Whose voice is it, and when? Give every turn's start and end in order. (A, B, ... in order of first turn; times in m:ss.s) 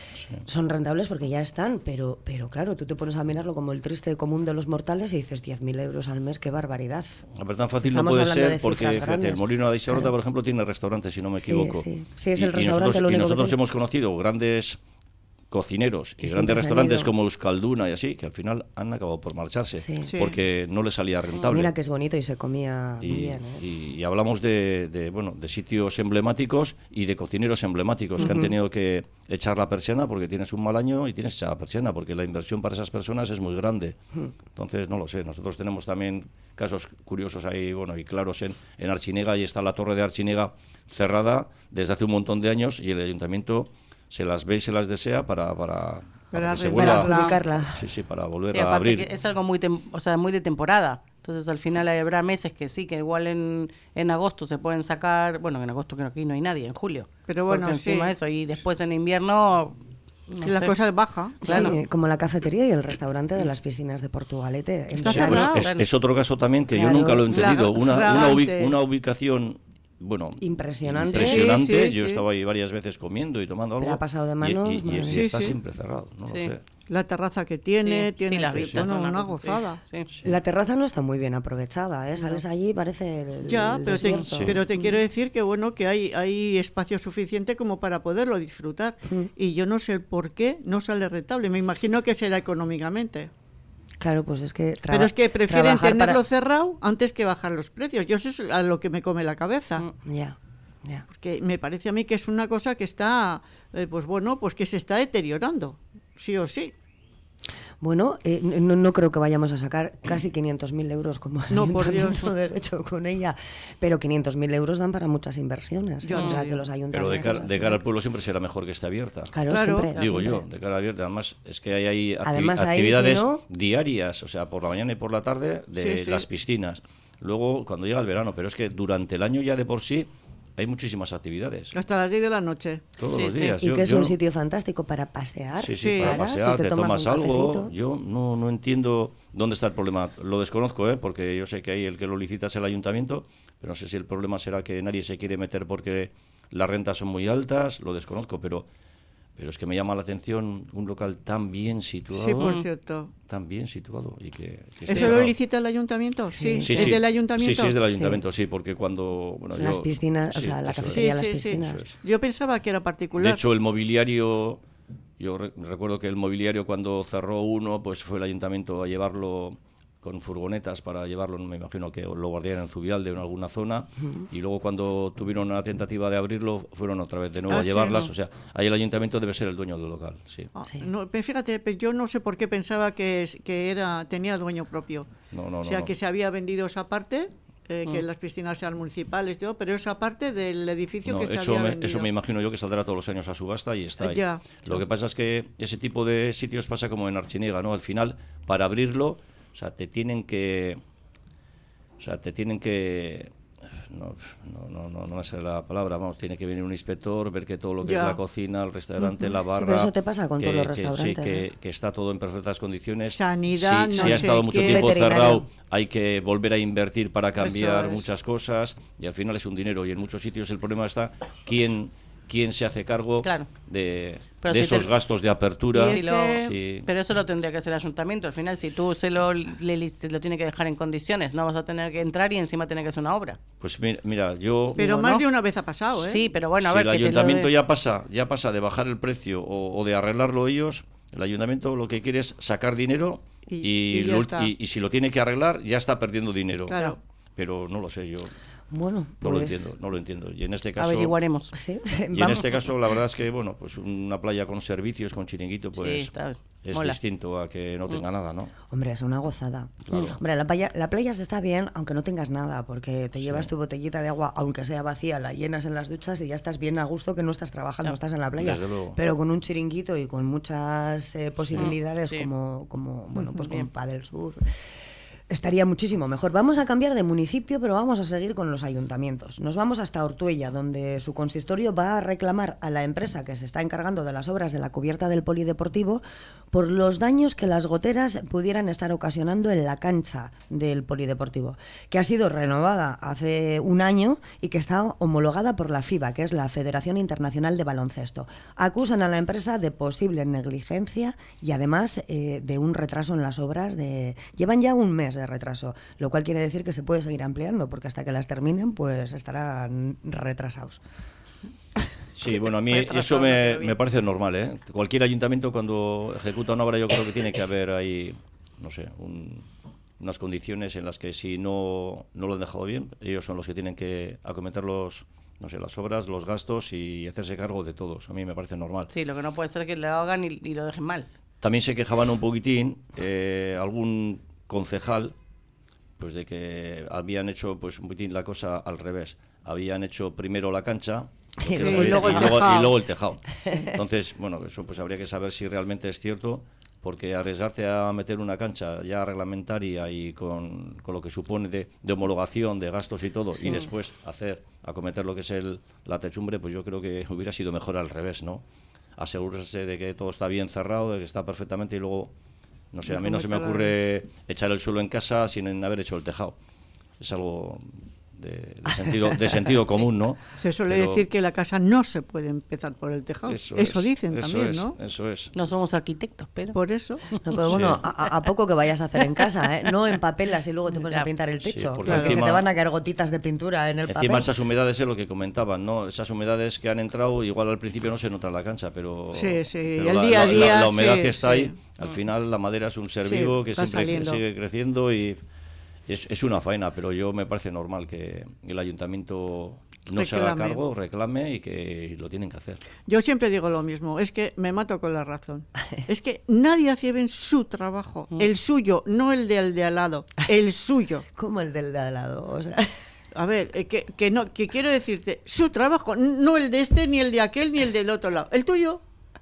0:00.2-0:00.4 A
0:00.4-0:07.1 B
0:07.4-0:14.8 A
0:07.8-0:10.1 B
0:11.4-0:13.6 B
0:15.5-0:21.7 A
0:16.2-0:17.1 B
0:19.8-0:20.1 B
0:20.1-0:20.4 C
0:21.5-0:23.6 B
0:23.0-0:34.0 A
0:28.2-0:28.5 B
0:34.5-0:47.1 A
0:46.3-0:47.4 C
0:46.8-0:47.8 B
0:47.7-0:49.0 A
0:48.5-0:59.8 D
0:57.3-0:58.1 C
1:00.3-1:00.7 D
1:00.4-1:01.7 C
1:01.4-1:05.5 B
1:05.0-1:05.7 C
1:05.1-1:16.6 A
1:05.2-1:05.9 D
1:06.7-1:07.5 B
1:07.3-1:08.7 C
1:10.4-1:11.5 B
1:11.2-1:12.2 C
1:13.8-1:15.2 B
1:15.1-1:15.6 C
1:16.9-1:19.8 C
1:17.8-1:20.1 D
1:18.5-1:18.8 A
1:20.2-1:25.0 B
1:23.4-1:33.3 C
1:24.3-1:24.6 A
1:34.0-1:36.2 B
1:34.9-1:39.8 C
1:40.0-1:41.0 B
1:41.1-1:46.7 C
1:47.8-1:57.8 B
1:51.5-1:52.3 C
1:56.0-1:56.6 C
1:56.9-1:59.3 A
1:59.3-2:00.4 B
1:59.5-1:59.9 C
2:00.0-2:11.7 A
2:02.2-2:03.4 B
2:05.8-2:06.2 C
2:11.7-2:12.8 C
2:13.0-2:14.1 A
2:13.1-2:13.6 D
2:13.6-2:17.7 B
2:15.6-2:28.7 A
2:15.8-2:16.2 C
2:29.4-2:32.5 A
2:32.1-2:33.1 C
2:32.4-2:32.7 D
2:33.3-2:35.3 A
2:34.9-2:37.8 C
2:34.9-2:35.2 D
2:36.3-2:37.0 B
2:36.6-2:41.9 A
2:37.9-2:38.2 B
2:39.5-2:41.8 B
2:40.9-2:43.4 C
2:43.2-2:44.6 A
2:45.2-3:00.5 A
2:57.5-2:58.1 C
3:00.6-3:05.1 C
3:05.3-3:05.9 A
3:05.6-3:12.1 C
3:11.0-3:20.8 A
3:14.0-3:14.8 C
3:22.0-3:46.9 A
3:27.8-3:28.2 C
3:29.5-3:31.4 B
3:33.1-3:35.0 C
3:33.9-3:35.5 B
3:37.4-3:38.0 C
3:43.2-3:43.5 D
3:44.4-3:44.9 D
3:45.7-3:46.5 C
3:45.8-3:53.4 D
3:53.6-3:54.8 A
3:54.7-3:55.2 D
3:54.8-3:56.2 C
3:56.0-3:57.5 D
3:56.6-4:08.3 A
4:03.5-4:04.5 C
4:06.7-4:07.0 C
4:08.7-4:09.7 B
4:09.2-4:11.1 A
4:10.8-4:11.6 D
4:11.5-4:12.4 B
4:12.1-4:18.5 A
4:15.8-4:17.0 D
4:18.7-4:34.4 B
4:19.8-4:20.2 A
4:23.2-4:23.5 A
4:28.4-4:29.0 A
4:31.5-4:32.3 D
4:33.3-4:33.6 D
4:35.3-5:10.8 B
5:12.2-5:19.4 A
5:12.3-5:13.8 D
5:20.0-5:28.9 A
5:28.9-5:31.1 D
5:31.4-5:35.1 A
5:36.0-5:58.4 A
5:41.4-5:42.6 B
5:41.6-5:42.7 C
5:43.4-5:43.7 B
5:53.4-5:53.7 D
5:59.0-6:02.1 A
6:02.7-6:06.4 A
6:02.9-6:03.7 C
6:07.0-6:11.0 A
6:08.8-6:09.4 B
6:10.4-6:14.7 C
6:13.3-6:15.3 A
6:15.3-6:16.6 D
6:16.5-6:17.0 C
6:17.2-6:24.3 B
6:17.5-6:17.8 A
6:20.7-6:21.1 D
6:21.4-6:22.4 A
6:21.8-6:22.2 C
6:23.9-6:35.2 A
6:29.1-6:31.5 C
6:33.0-6:34.2 C
6:35.9-6:42.6 A
6:40.0-6:40.6 C
6:42.9-6:51.0 C
6:51.1-6:52.7 B
6:53.2-6:58.8 C